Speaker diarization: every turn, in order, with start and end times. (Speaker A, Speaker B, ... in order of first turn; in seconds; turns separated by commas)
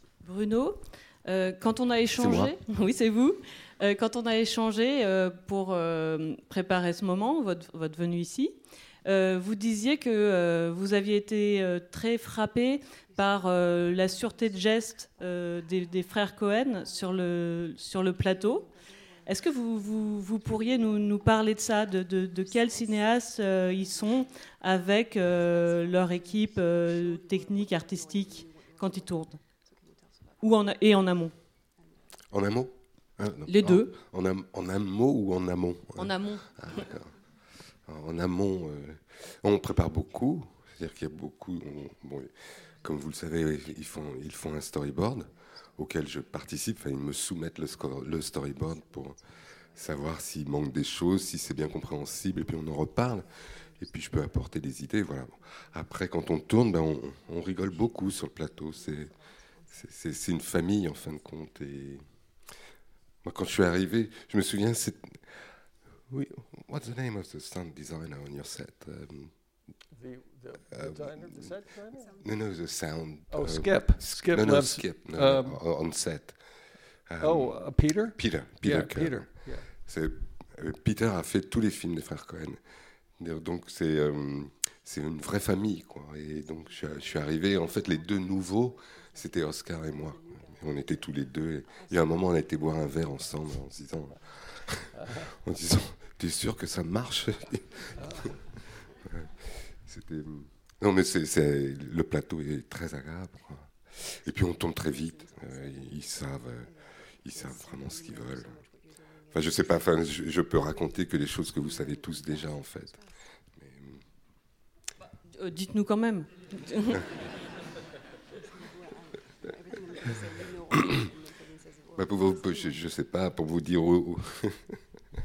Speaker A: 0.2-18.7, Speaker B: 2.1-2.5, Speaker A: 19.3-29.4, Speaker A: 30.4-31.3, Speaker B: 32.3-37.1, Speaker A: 33.5-33.9, Speaker A: 36.0-36.5, Speaker B: 37.9-42.3, Speaker B: 42.8-49.2, Speaker B: 49.7-59.1, Speaker B: 59.7-62.0, Speaker B: 63.2-65.2, Speaker B: 66.4-69.3, Speaker C: 70.0-72.1, Speaker B: 70.7-71.5, Speaker B: 72.2-76.4, Speaker C: 73.3-75.6, Speaker B: 77.1-77.6, Speaker C: 77.2-79.7, Speaker B: 78.2-82.6, Speaker B: 83.2-97.9, Speaker C: 98.0-98.3, Speaker B: 99.9-106.7, Speaker B: 107.2-108.6, Speaker B: 109.3-113.0, Speaker B: 113.6-114.0, Speaker A: 115.3-117.0, Speaker B: 122.0-124.8